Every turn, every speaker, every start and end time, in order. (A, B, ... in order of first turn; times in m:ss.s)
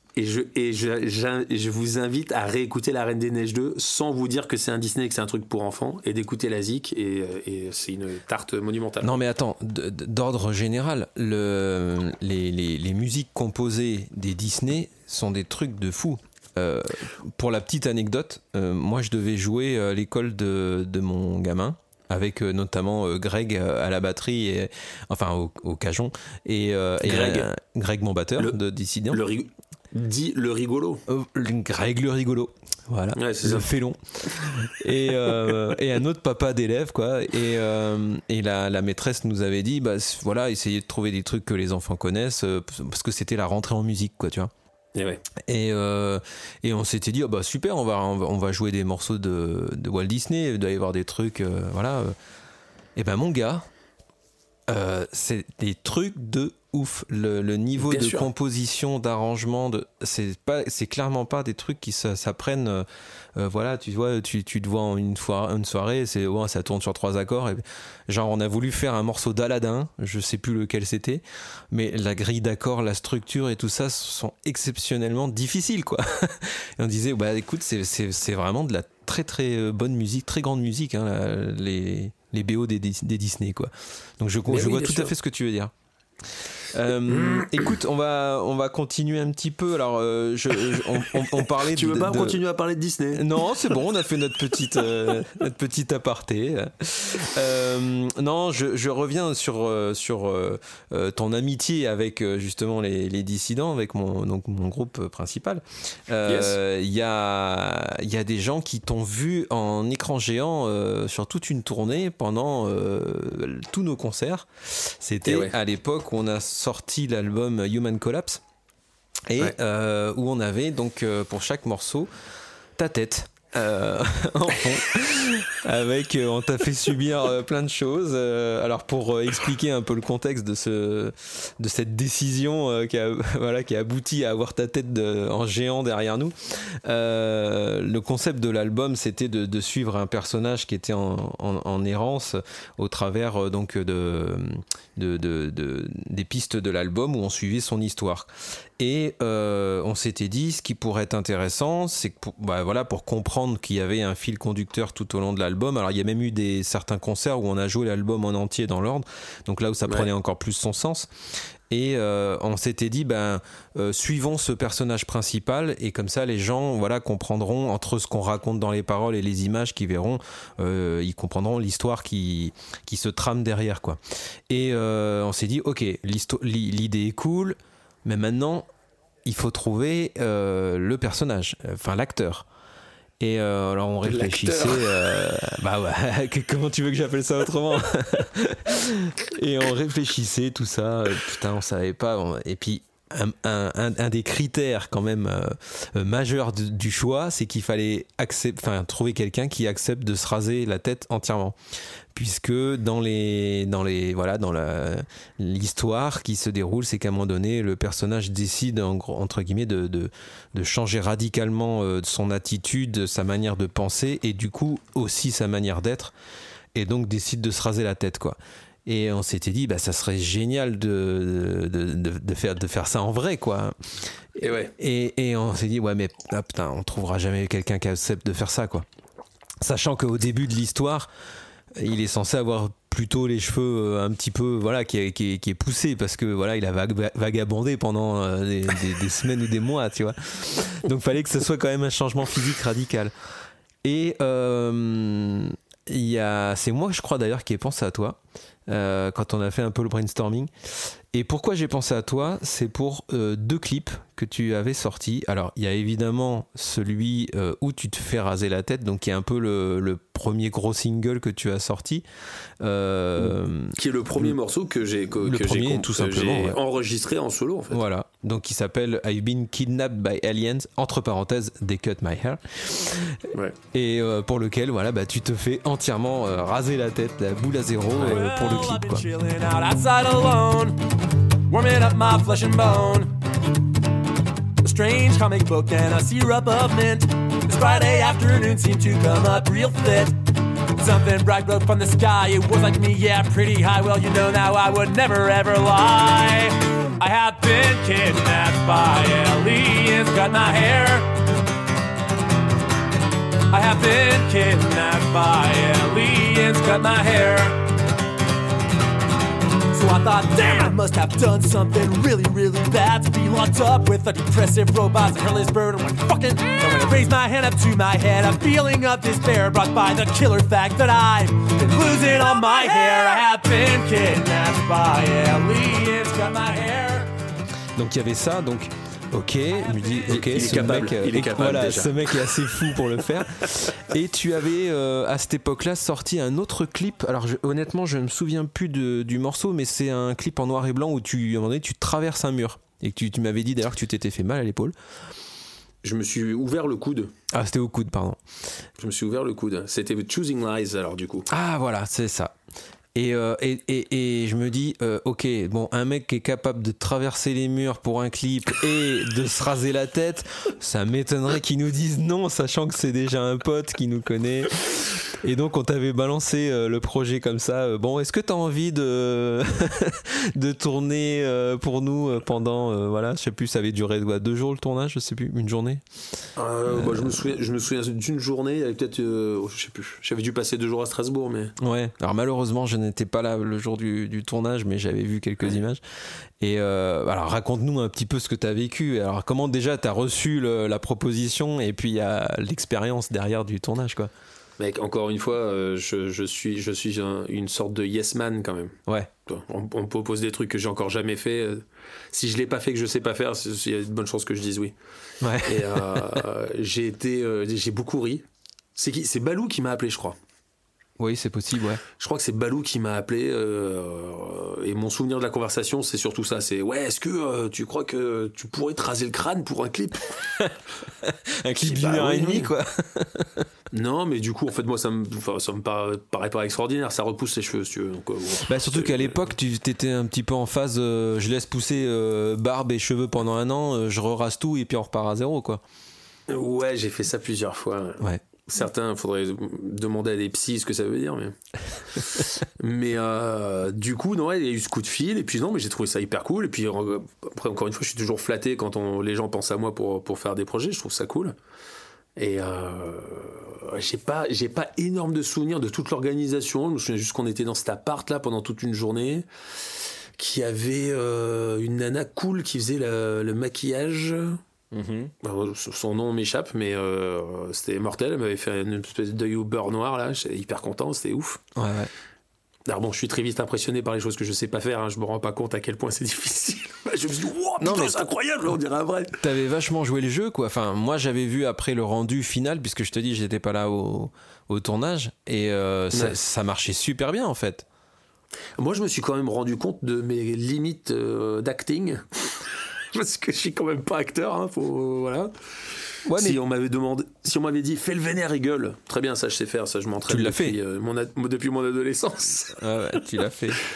0:00.2-0:09.1 A
0:09.0-0:29.2 B
0:27.0-0:27.5 A
0:29.1-0:31.0 A
0:31.1-0:44.5 B
0:33.2-0:33.7 A
0:45.0-0:45.2 A
0:45.5-0:52.2 B
0:53.0-0:53.7 B
0:54.7-1:25.7 B
0:57.8-0:58.3 A
1:24.5-1:25.1 A
1:26.7-1:32.4 B
1:27.1-1:27.6 A
1:31.5-1:33.4 A
1:33.1-1:58.4 B
1:46.3-1:46.6 A
1:55.2-1:55.6 A
1:59.3-2:02.1 B
2:02.8-2:41.1 B
2:41.7-2:58.7 B
2:59.2-3:02.5 B
3:03.2-3:21.6 B
3:04.1-3:04.9 A
3:22.1-3:36.1 B
3:36.8-3:48.9 B
3:44.4-3:44.7 A
3:49.6-3:51.1 B
3:51.7-4:03.1 B
4:03.8-4:22.1 B
4:22.6-4:24.4 B
4:23.2-4:27.8 A
4:25.2-4:26.6 B
4:27.7-4:39.1 B
4:38.0-4:40.8 C
4:41.5-4:43.1 C
4:44.6-4:50.2 C
4:50.8-5:01.1 C
5:03.5-5:07.6 C
5:09.7-5:27.1 C
5:27.8-5:44.8 B
5:30.1-5:32.1 A
5:45.8-5:47.1 A
5:47.3-5:48.2 B
5:48.8-5:51.3 A
5:51.3-5:52.4 B
5:53.0-6:15.8 B
6:16.4-6:21.5 A
6:16.7-6:17.0 B
6:21.6-6:25.8 B
6:26.4-6:34.1 B
6:34.6-6:44.8 A
6:45.2-6:46.2 B
6:45.4-6:50.2 A
6:51.0-6:51.8 B
6:52.0-7:00.3 A
7:01.0-7:03.5 B
7:01.6-7:02.5 A
7:03.7-7:09.2 A
7:08.5-7:15.6 B
7:16.3-7:21.3 A
7:22.1-7:31.4 A
7:32.2-7:39.3 A
7:40.2-7:44.4 A
7:44.7-7:45.0 B
7:45.0-7:51.4 A
7:51.6-7:51.9 B
7:52.7-7:59.2 A
7:57.6-7:58.0 B
7:59.2-8:07.6 B
8:08.6-8:15.3 A
8:16.1-8:16.4 B
8:16.1-8:22.8 A
8:20.1-8:20.6 B
8:22.6-8:23.6 B